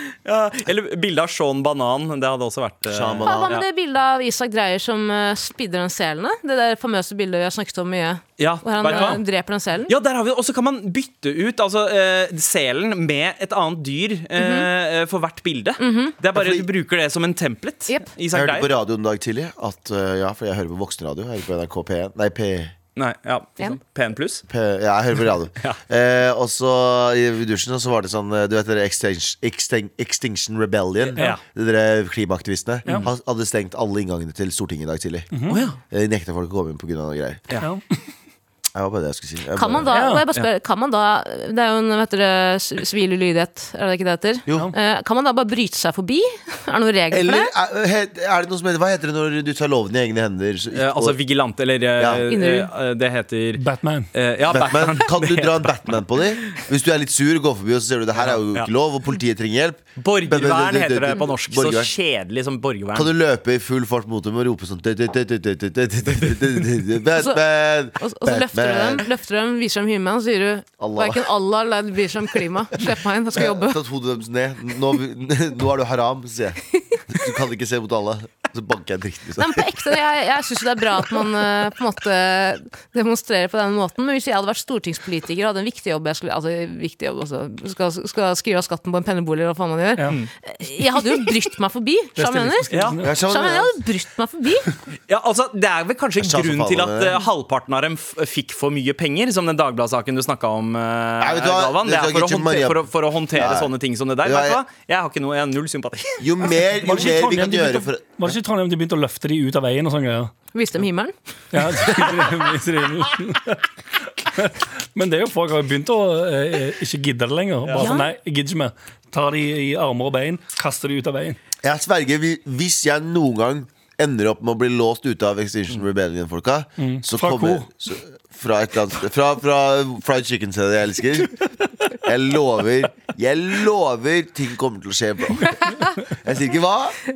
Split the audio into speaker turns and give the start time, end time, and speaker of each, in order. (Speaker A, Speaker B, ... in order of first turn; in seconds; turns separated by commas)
Speaker A: 0.2-3.6, Speaker B: 2.9-3.6, Speaker C: 3.3-9.9, Speaker A: 8.4-9.2, Speaker A: 9.9-18.7, Speaker C: 14.4-14.7, Speaker C: 15.8-16.1, Speaker B: 16.3-16.7, Speaker B: 18.3-22.7, Speaker A: 23.0-24.4, Speaker B: 24.5-35.3, Speaker A: 31.1-31.4, Speaker D: 35.3-35.6, Speaker A: 35.5-35.8, Speaker B: 35.9-37.4, Speaker B: 38.8-39.9, Speaker C: 39.5-47.5, Speaker D: 39.9-40.3, Speaker B: 47.1-51.2, Speaker A: 50.7-53.6, Speaker B: 52.0-52.3, Speaker C: 52.3-52.7, Speaker D: 53.6-54.1, Speaker A: 54.1-55.9, Speaker B: 54.5-61.9, Speaker A: 58.2-58.7, Speaker A: 60.0-63.1, Speaker B: 62.9-69.0, Speaker C: 68.0-73.8, Speaker B: 70.8-71.3, Speaker B: 73.3-79.8, Speaker C: 79.4-92.7, Speaker D: 92.2-93.2, Speaker A: 92.7-93.0, Speaker B: 93.0-93.8, Speaker C: 93.3-94.7, Speaker A: 95.1-106.6, Speaker B: 96.2-97.2, Speaker B: 101.2-104.6, Speaker B: 106.2-108.3, Speaker D: 106.8-110.3, Speaker C: 110.5-111.1, Speaker D: 111.5-113.6, Speaker D: 114.2-121.4, Speaker C: 117.8-118.1, Speaker B: 121.6-131.4, Speaker D: 126.8-127.7, Speaker B: 132.0-137.0